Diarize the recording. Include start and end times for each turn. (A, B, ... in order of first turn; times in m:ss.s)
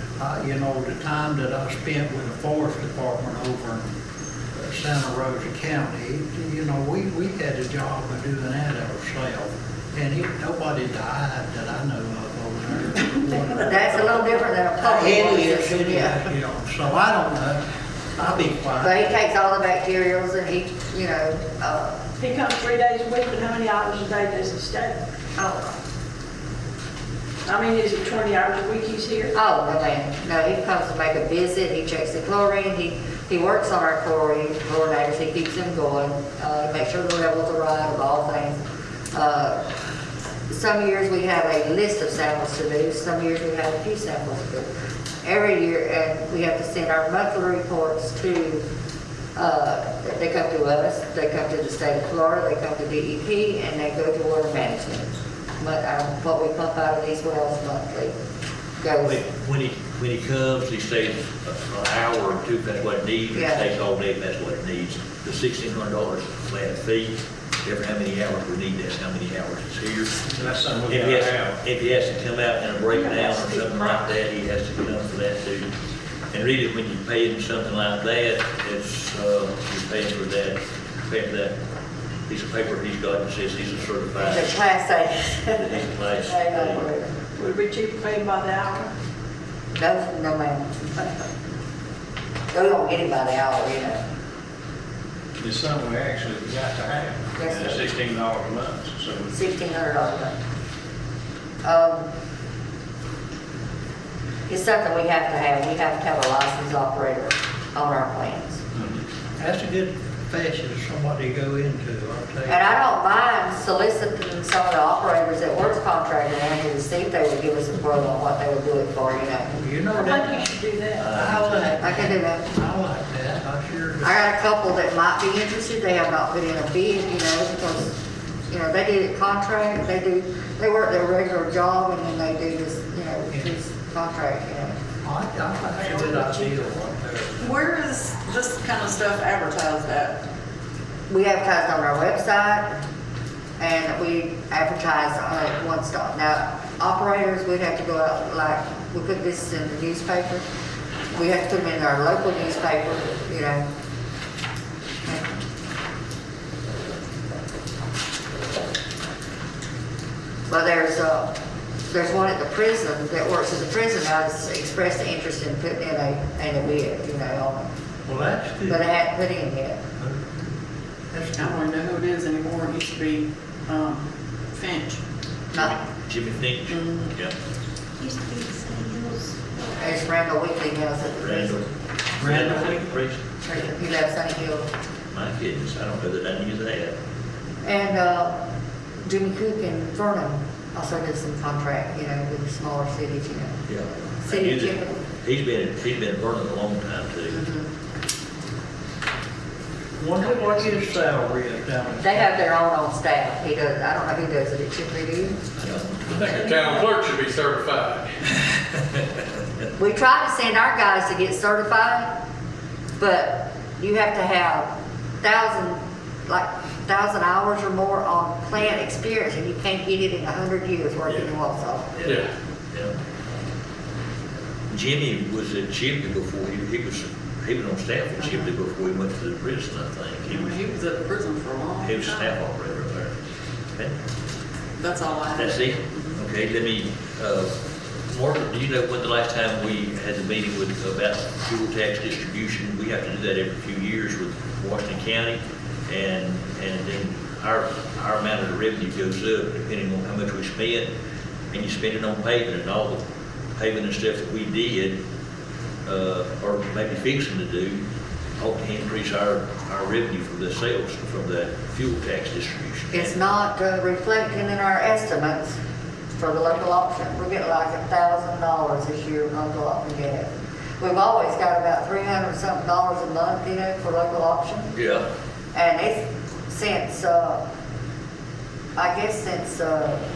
0:00.2-0:03.9 A
0:04.6-0:17.6 A
0:13.6-0:16.2 B
0:18.2-0:19.1 A
0:18.8-0:22.0 B
0:22.2-0:25.0 C
0:25.4-0:25.8 B
0:27.5-0:29.4 C
0:29.4-0:39.6 B
0:40.5-0:44.7 B
0:45.2-0:48.6 B
0:49.4-0:58.2 B
0:58.8-0:59.2 B
0:59.0-1:15.7 D
1:03.3-1:03.7 B
1:10.3-1:11.6 E
1:12.9-1:14.1 C
1:16.3-1:21.6 D
1:22.3-1:24.6 D
1:24.2-1:27.1 B
1:25.5-1:26.9 D
1:27.4-1:28.9 C
1:29.7-1:31.2 B
1:32.5-1:34.0 B
1:35.4-1:39.3 E
1:37.4-1:37.8 B
1:39.3-1:40.4 B
1:41.6-1:42.1 B
1:44.5-1:48.6 B
1:49.4-1:52.7 A
1:52.5-1:59.6 B
1:59.6-2:00.6 A
1:59.9-2:01.1 C
2:01.0-2:01.9 D
2:01.1-2:04.2 A
2:01.8-2:02.4 B
2:04.0-2:08.0 B
2:08.5-2:14.8 B
2:15.0-2:17.6 A
2:15.9-2:16.3 F
2:17.4-2:20.2 F
2:21.1-2:22.8 B
2:23.6-2:30.4 B
2:31.1-2:33.7 B
2:35.0-2:35.4 B
2:40.5-2:41.3 B
2:41.9-2:47.7 B
2:48.1-2:48.8 A
2:48.7-2:49.8 B
2:50.0-2:50.5 A
2:51.1-2:51.6 A
2:51.3-2:55.0 F
2:55.5-2:57.3 D
2:55.5-2:55.8 B
2:56.7-2:57.1 F
2:58.0-3:00.1 G
2:59.8-3:01.6 B
3:01.2-3:01.6 D
3:02.2-3:03.2 D
3:02.2-3:02.9 A
3:03.4-3:04.7 B
3:05.1-3:06.9 D
3:07.6-3:08.4 B
3:09.0-3:13.6 B
3:13.7-3:17.5 D
3:14.2-3:15.0 B
3:17.4-3:17.7 B
3:20.0-3:22.3 A
3:22.0-3:25.4 B
3:25.6-3:26.6 D
3:26.1-3:28.1 H
3:29.8-3:32.2 B
3:33.0-3:41.9 B
3:41.0-3:41.4 D
3:41.9-3:42.9 D
3:44.7-3:50.6 D
3:50.3-3:52.4 F
3:51.8-3:53.1 D
3:54.8-3:56.2 F
3:55.3-3:57.5 D
3:58.1-4:10.9 D
4:11.5-4:13.0 D
4:13.6-4:15.0 D
4:15.9-4:17.8 D
4:18.4-4:23.2 D
4:22.9-4:25.6 B
4:26.2-4:34.7 B
4:34.7-4:35.0 D
4:35.5-4:37.4 B
4:38.8-4:40.0 B